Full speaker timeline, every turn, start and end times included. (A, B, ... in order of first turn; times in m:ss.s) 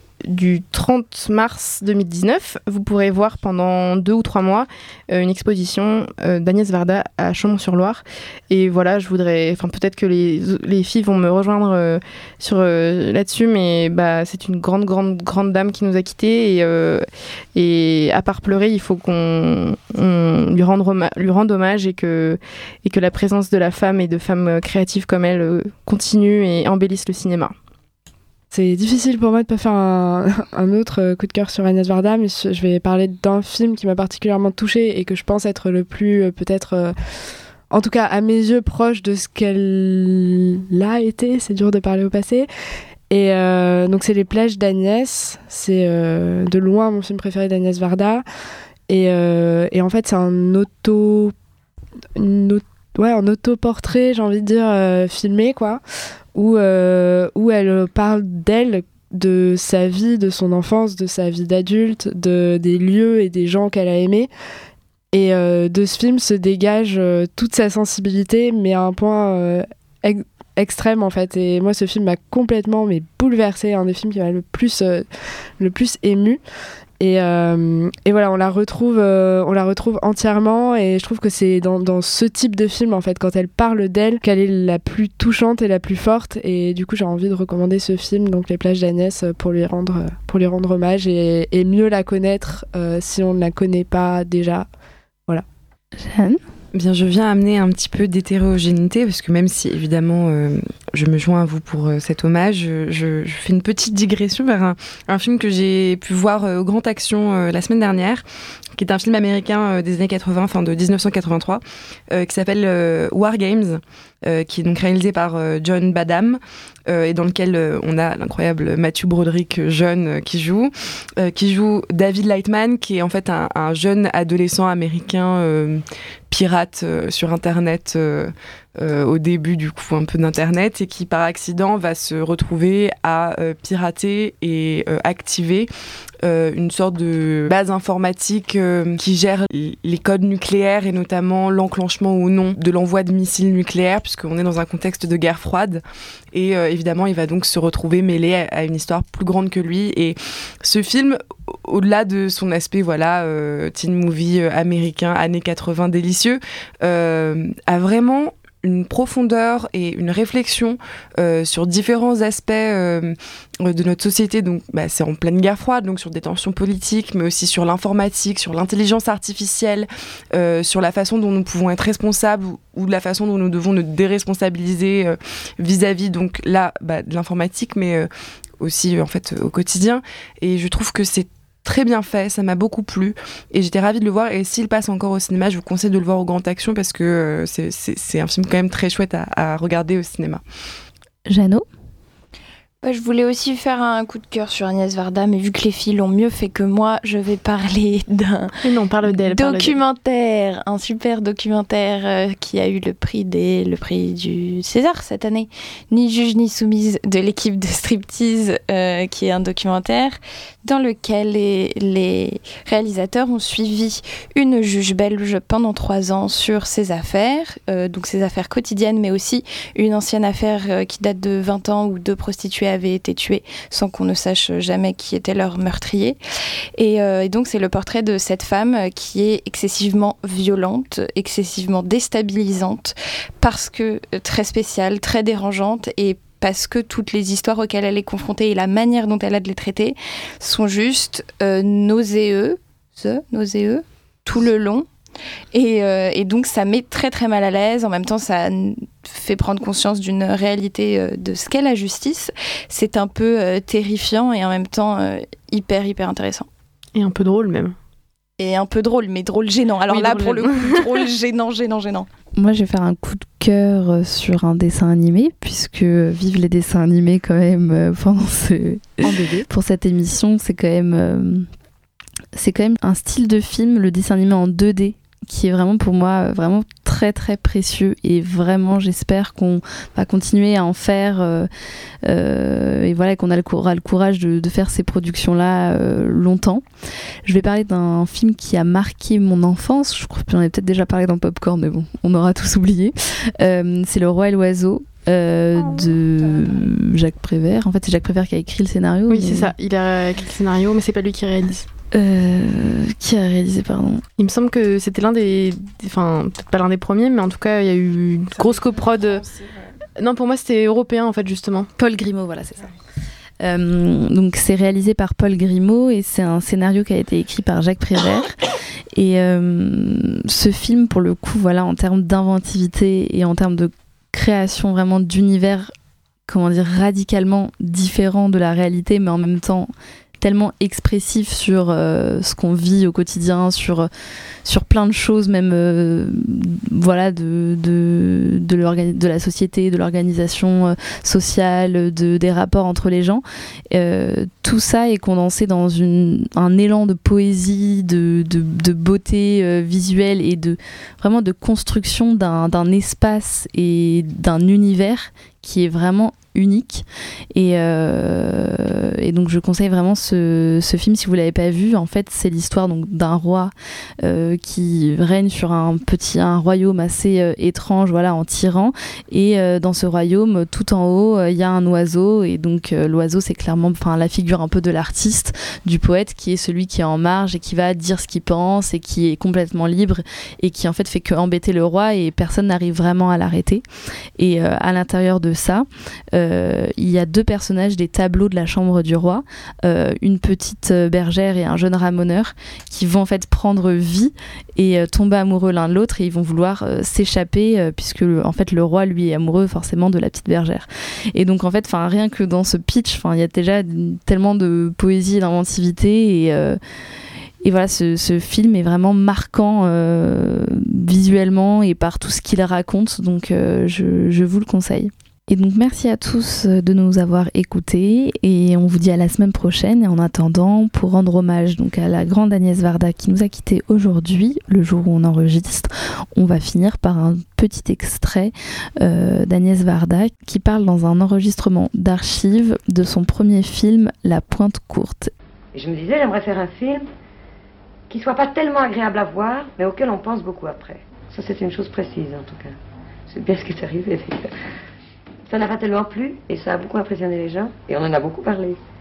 0:00.3-0:27.5 A
0:28.5-0:36.9 B
0:37.7-0:42.5 B
0:43.1-0:48.2 B
0:48.9-0:51.3 B
0:52.2-0:55.8 B
0:56.3-1:04.3 B
1:05.1-1:15.1 B
1:15.6-1:16.4 B
1:17.0-1:34.7 B
1:36.0-1:36.4 C
1:36.7-1:48.2 D
1:48.8-2:15.7 D
2:16.2-2:25.8 D
2:26.3-2:58.1 D
2:58.6-3:10.4 D
3:11.3-3:11.7 C
3:12.8-3:18.5 E
3:18.6-3:19.8 A
3:19.2-3:46.2 E
3:46.8-4:04.9 E
4:05.5-4:16.5 E
4:17.0-4:17.8 A
4:18.4-4:22.1 E
4:19.9-4:21.0 A
4:22.4-4:31.5 C
4:29.0-4:29.4 A
4:32.3-4:41.5 C
4:42.0-4:46.6 C
4:47.3-4:59.5 C
4:59.1-5:01.7 A
5:01.9-5:04.0 C
5:04.2-5:09.3 A
5:10.0-5:11.7 A
5:11.8-5:12.7 C
5:13.4-5:18.4 C
5:18.9-5:25.7 C
5:26.3-5:33.9 C
5:34.4-6:23.6 C
6:24.2-6:46.6 C
6:47.4-7:15.1 C
7:15.5-7:16.9 F
7:17.9-7:22.6 F
7:23.1-7:24.3 F
7:25.3-7:28.6 F